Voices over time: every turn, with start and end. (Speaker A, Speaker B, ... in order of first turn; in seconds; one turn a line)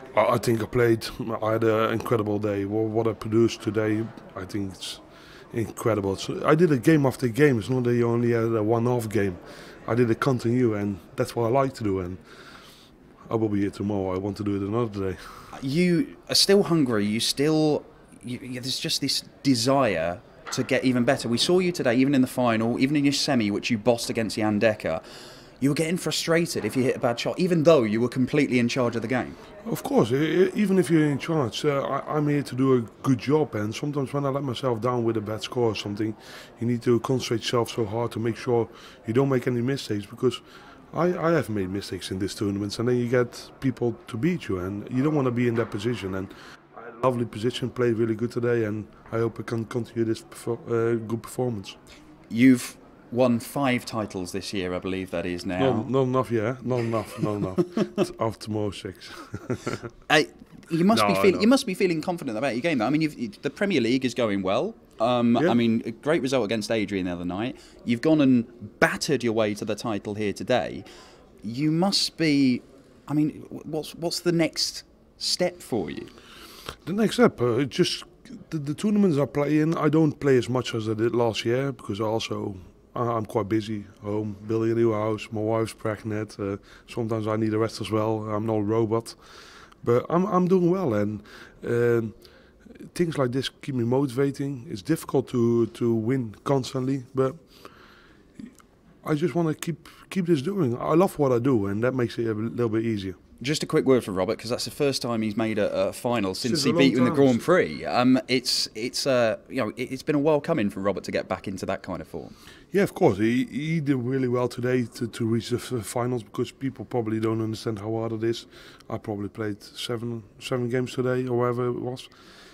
Speaker A: 0.1-12.2
Speaker A: 13.3-15.5
Speaker B: 15.5-25.0
Speaker B: 25.6-29.4
Speaker A: 29.6-51.8
Speaker B: 52.3-55.9
Speaker A: 55.6-59.9
Speaker B: 57.2-58.0
Speaker B: 60.1-70.8
Speaker A: 60.8-61.5
Speaker A: 65.3-65.6
Speaker B: 71.4-76.1
Speaker A: 76.8-89.2
Speaker A: 89.8-92.2
Speaker A: 92.8-97.5
Speaker A: 99.0-103.2
Speaker B: 103.4-112.3
Speaker A: 106.4-107.4
Speaker A: 112.7-122.1